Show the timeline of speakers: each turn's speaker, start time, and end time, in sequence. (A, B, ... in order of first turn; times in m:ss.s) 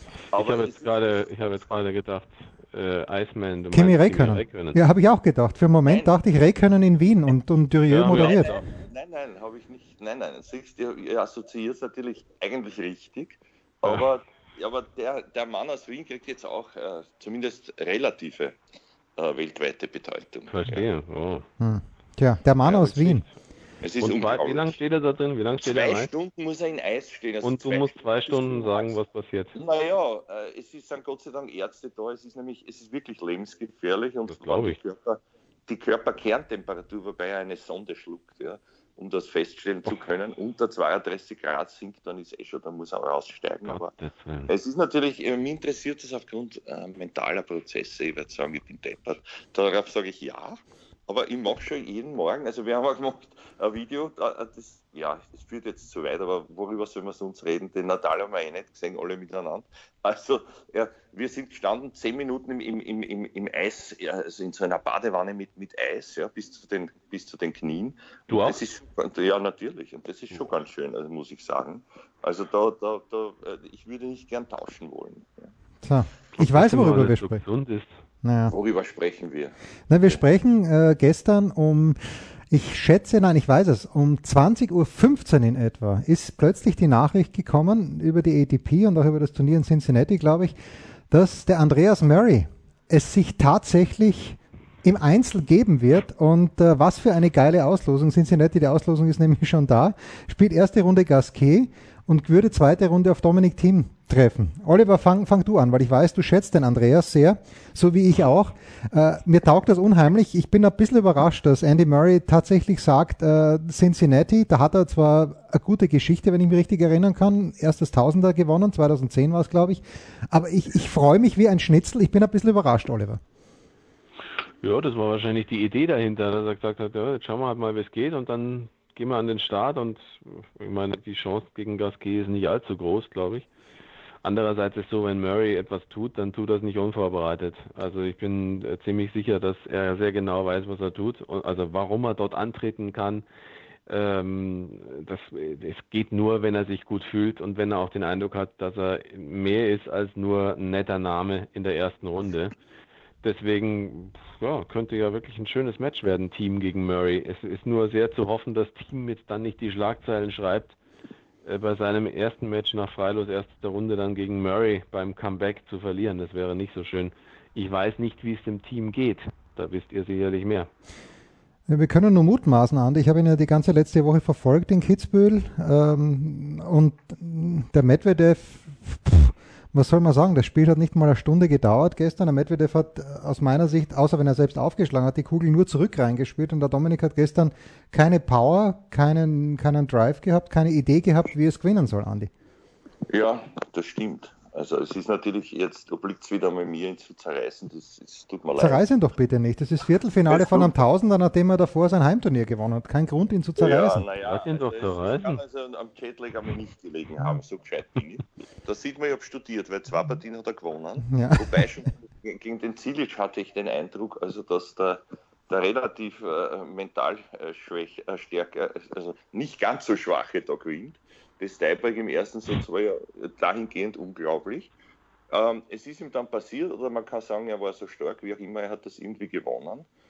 0:00.3-0:01.3 A
0:00.3-0:04.8 B
0:03.7-0:08.5 C
0:05.9-0:06.1 A
0:07.9-0:08.6 B
0:08.0-0:18.6 A
0:19.2-0:20.8 A
0:20.5-0:21.5 B
0:21.6-0:23.2 C
0:22.6-0:23.2 B
0:23.8-0:24.8 A
0:24.0-0:26.1 B
0:25.6-0:29.0 A
0:27.4-0:29.6 B
0:29.5-0:43.9 A
0:34.3-0:34.8 B
0:43.7-0:44.5 B
0:44.5-1:15.5 A
1:08.3-1:08.6 B
1:15.8-1:17.4 C
1:16.4-1:17.9 B
1:18.2-1:18.5 C
1:18.5-1:19.6 A
1:19.9-1:30.6 C
1:31.1-2:03.2 C
2:04.6-2:13.5 B
2:14.2-2:23.2 B
2:23.9-2:32.5 B
2:33.2-2:40.8 B
2:41.4-2:50.7 B
2:51.7-3:12.3 C
3:13.1-3:18.8 A
3:18.6-3:24.0 C
3:20.3-3:20.7 A
3:23.6-3:44.7 A
3:24.2-3:25.4 B
3:31.1-3:31.6 C
3:45.3-3:49.9 A